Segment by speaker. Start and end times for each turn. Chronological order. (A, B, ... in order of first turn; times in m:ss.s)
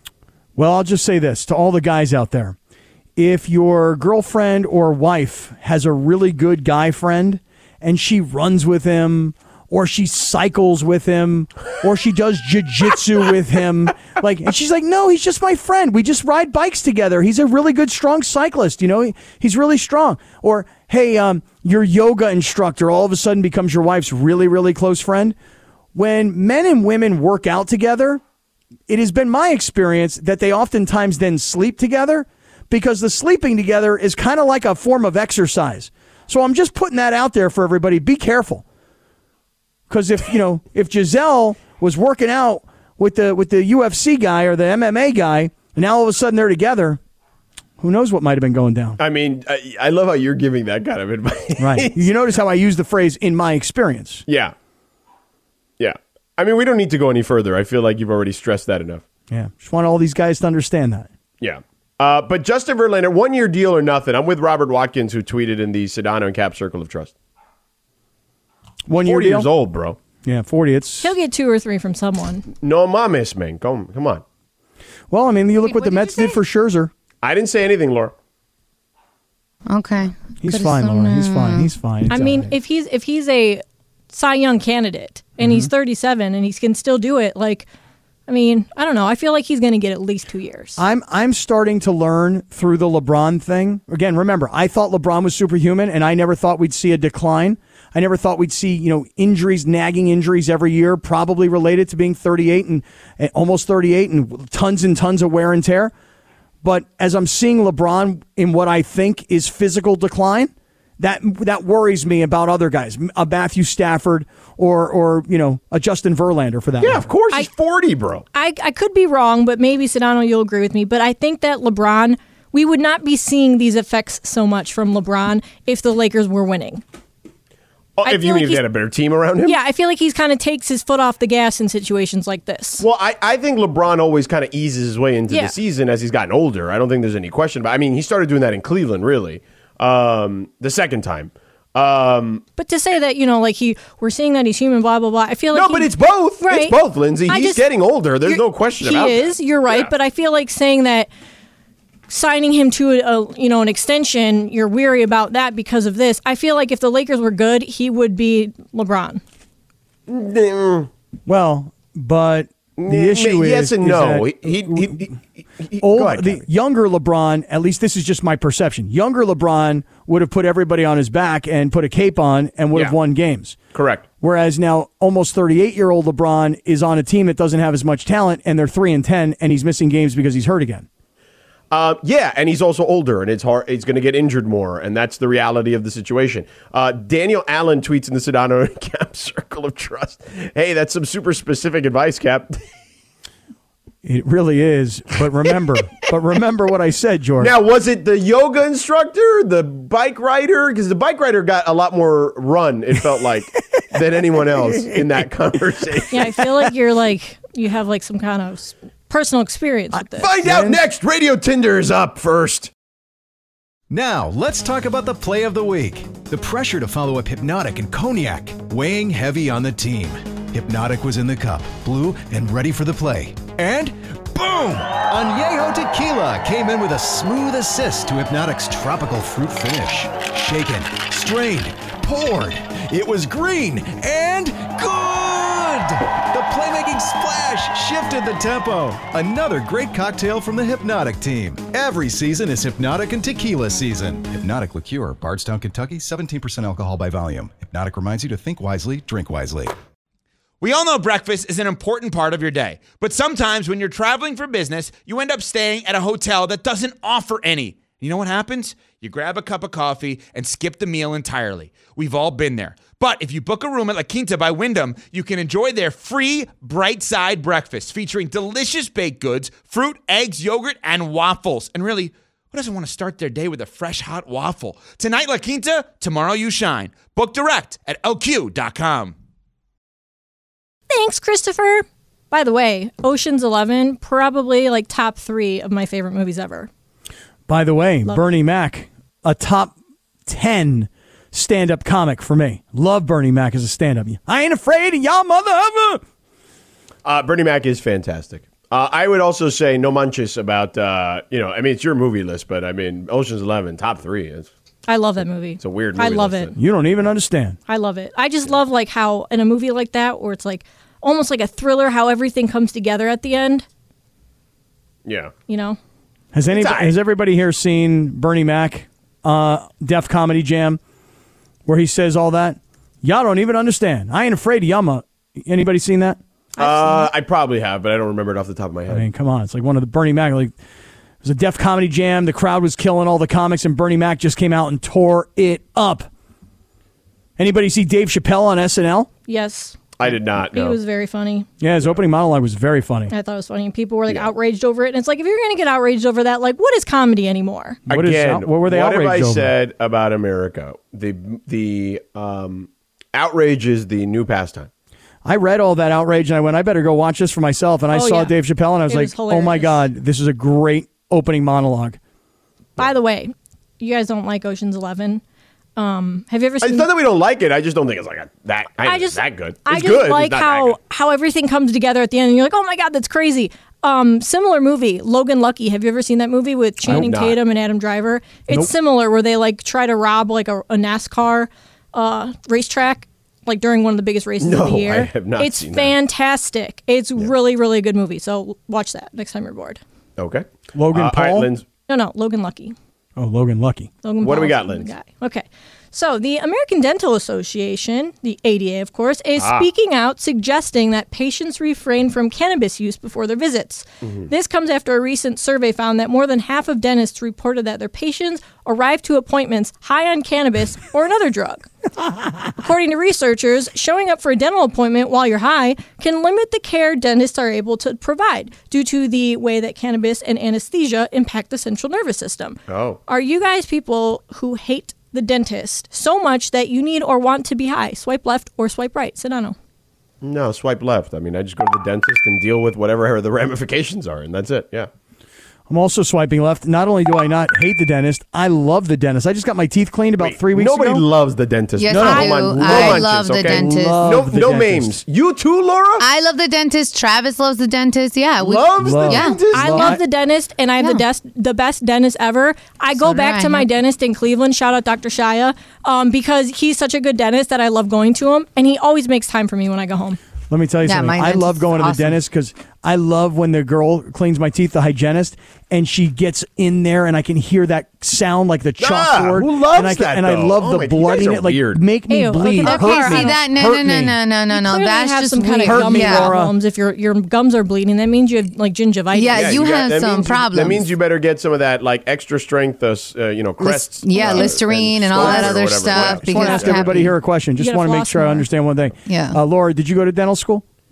0:00.6-0:02.6 A
0:03.2-0:25.4 A
0:26.0-0:28.2 A
0:28.9-0:38.6 A
0:39.9-0:47.0 A
0:47.8-0:49.0 A
0:49.0-0:52.1 B
0:51.6-0:54.2 A
0:54.3-0:54.5 B
0:55.8-0:59.0 B
0:59.3-1:01.1 A
1:01.4-1:07.1 B
1:08.9-1:09.5 A
1:09.0-1:10.0 B
1:10.2-1:11.1 A
1:11.0-1:12.5 C
1:12.6-1:14.2 B
1:15.1-1:16.9 A
1:15.8-1:16.3 C
1:17.2-1:18.1 B
1:19.7-1:21.7 D
1:20.4-1:22.5 A
1:22.1-1:27.7 C
1:25.4-1:25.7 A
1:28.3-1:30.8 C
1:30.8-1:45.9 A
1:46.6-1:57.1 A
1:56.8-1:58.3 B
1:58.3-2:06.8 C
2:08.0-2:09.6 B
2:08.0-2:08.6 C
2:09.4-2:12.8 C
2:12.8-2:22.4 B
2:22.6-2:26.8 C
2:25.5-2:29.9 B
2:27.3-2:27.6 C
2:28.2-2:31.1 C
2:32.1-2:39.2 C
2:40.1-2:40.9 B
2:41.3-2:45.0 A
2:42.8-2:46.4 B
2:45.8-2:53.6 A
2:53.7-2:54.1 B
2:54.2-3:00.9 A
3:01.7-3:12.6 B
3:14.0-3:17.5 A
3:17.4-3:26.4 B
3:24.7-3:25.1 A
3:26.1-3:30.3 C
3:30.2-3:32.7 B
3:30.4-3:30.8 A
3:33.9-4:09.8 E
4:10.6-4:39.2 F
4:40.9-4:46.7 C
4:47.5-4:49.7 A
4:50.3-4:56.0 A
4:57.0-5:04.5 B
5:04.9-5:06.5 C
5:05.6-5:06.6 B
5:06.6-5:07.6 A
5:07.7-5:13.7 C
5:15.1-5:15.3 B
5:15.5-5:15.8 C
5:16.3-5:20.8 A
5:16.5-5:17.0 B
5:21.7-5:26.2 A
5:26.6-5:27.1 C
5:26.6-5:29.1 B
5:28.9-5:30.5 A
5:31.2-5:36.1 A
5:37.4-5:39.1 A
5:39.3-5:39.9 C
5:40.0-5:40.8 B
5:40.5-5:41.5 C
5:41.6-5:43.1 A
5:43.1-5:47.8 C
5:47.9-5:49.5 A
5:47.9-5:54.7 B
5:55.2-6:02.0 A
5:57.9-5:58.3 C
5:58.9-5:59.8 C
6:02.8-6:05.2 C
6:05.8-6:06.9 C
6:06.6-6:10.8 B
6:08.8-6:29.8 C
6:16.8-6:17.4 B
6:24.4-6:26.0 B
6:30.2-6:31.6 B
6:30.7-6:31.5 A
6:31.9-6:32.8 C
6:33.2-6:33.9 A
6:34.0-6:51.7 C
6:34.2-6:34.9 B
6:39.4-6:39.7 B
6:44.0-6:44.3 B
6:52.6-7:09.6 C
7:02.7-7:03.0 B
7:10.2-7:14.9 B
7:15.7-7:21.0 A
7:20.2-7:26.0 B
7:21.8-7:24.1 D
7:21.9-7:25.0 A
7:22.1-7:22.3 C
7:26.0-7:29.4 D
7:28.4-7:30.0 B
7:28.8-7:30.0 A
7:29.5-7:40.2 C
7:33.0-7:33.7 D
7:40.5-7:54.2 A
7:40.8-7:42.2 D
7:48.8-7:51.8 B
7:52.1-7:53.4 C
7:52.6-7:56.4 D
7:54.5-7:59.6 C
7:55.6-7:56.5 A
7:59.1-8:00.9 D
7:59.3-8:07.1 B
8:03.6-8:07.1 D
8:05.2-8:10.6 A
8:06.3-8:06.7 C
8:07.6-8:08.5 C
8:09.1-8:09.4 D